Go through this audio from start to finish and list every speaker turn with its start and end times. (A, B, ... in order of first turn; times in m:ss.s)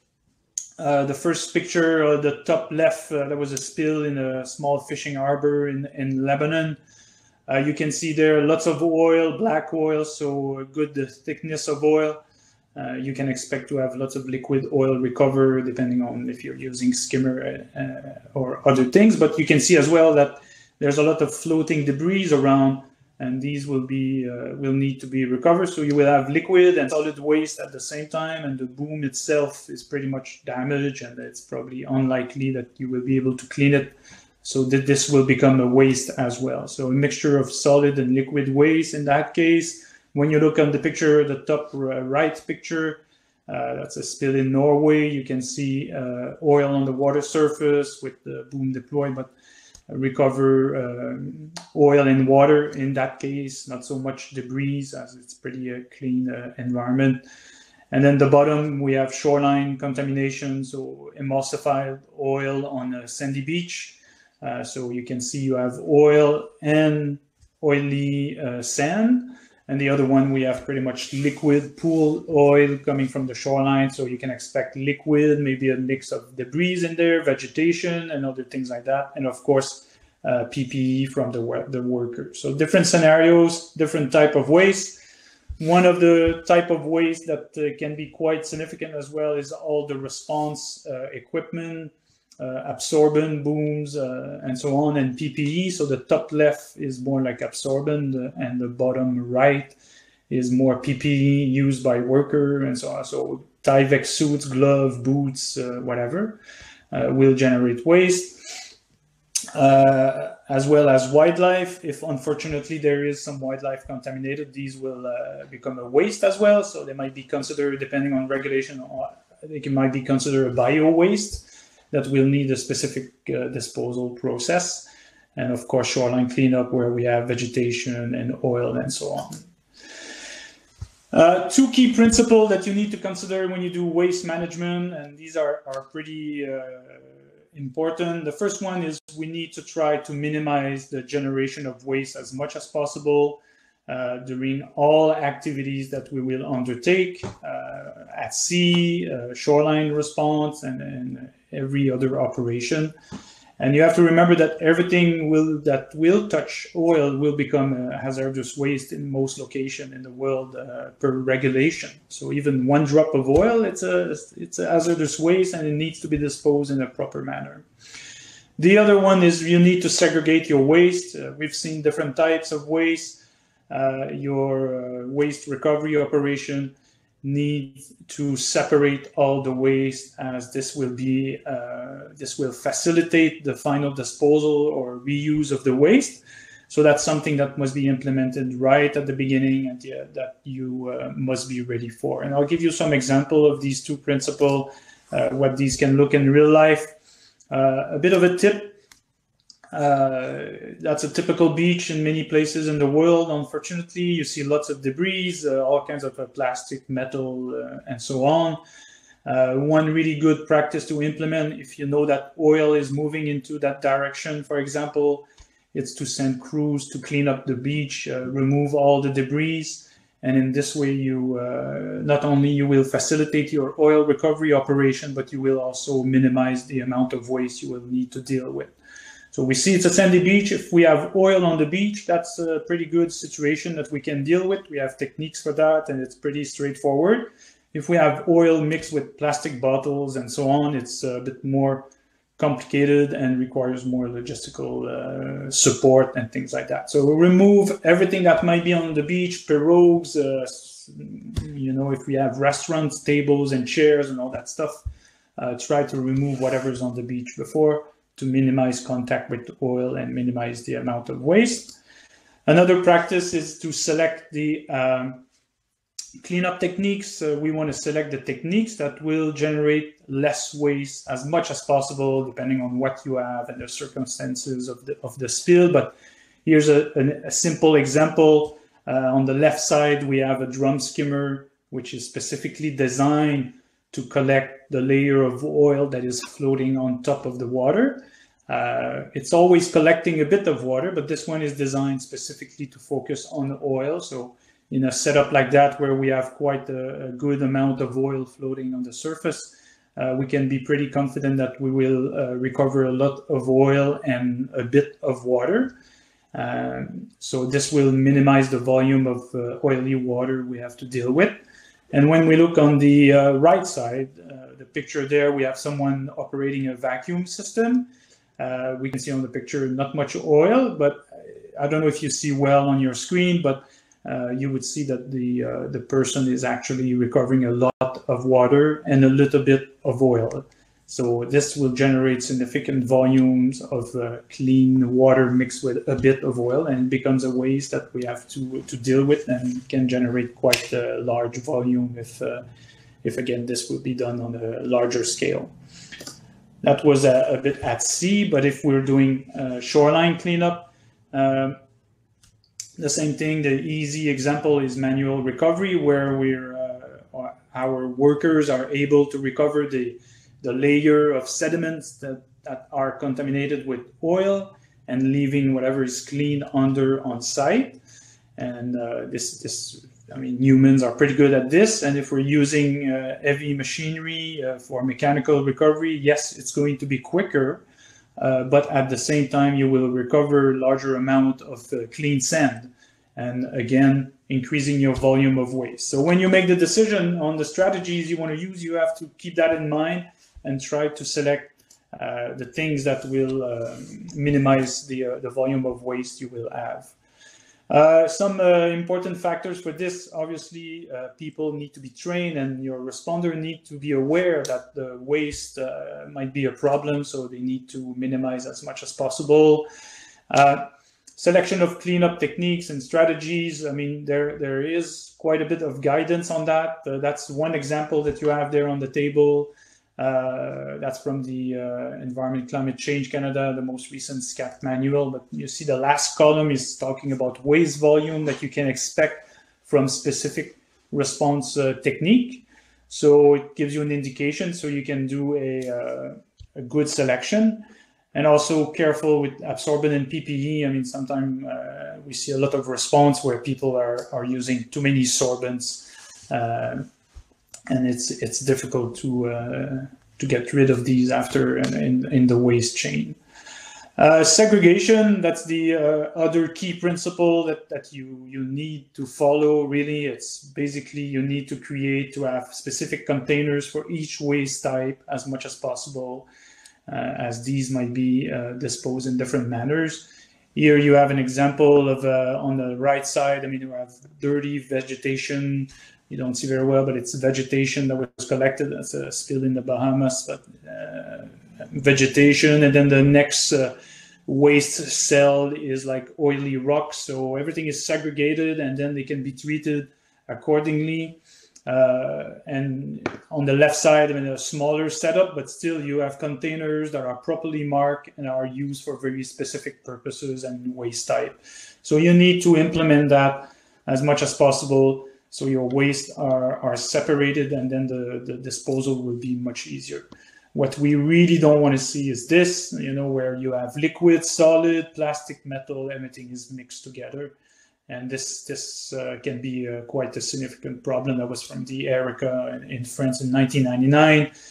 0:00.8-0:06.8 A
0:07.5-0:12.2 A
0:12.8-0:49.3 A
0:49.9-0:57.2 A
0:57.9-1:25.0 A
1:25.6-1:39.8 A
1:40.3-1:46.4 A
1:46.9-1:48.7 A
1:49.5-2:09.4 A
2:11.1-2:32.9 A
2:33.6-2:47.7 A
2:48.6-3:16.9 A
3:17.5-3:18.8 A
3:19.7-3:28.6 A
3:29.2-3:48.7 A
3:49.3-4:01.9 A
4:02.4-4:14.8 A
4:15.4-4:21.8 A
4:22.5-4:25.2 A
4:26.2-5:05.8 A
5:06.3-5:42.4 A
5:43.0-5:45.5 A
5:46.6-5:51.6 A
5:52.8-6:07.8 A
6:08.4-6:17.6 A
6:18.2-6:37.0 A
6:37.7-6:49.7 A
6:50.3-7:26.9 A
7:27.7-7:33.2 A
7:34.0-7:46.3 A
7:46.9-8:03.8 A
8:04.3-8:37.4 A
8:37.9-8:44.3 A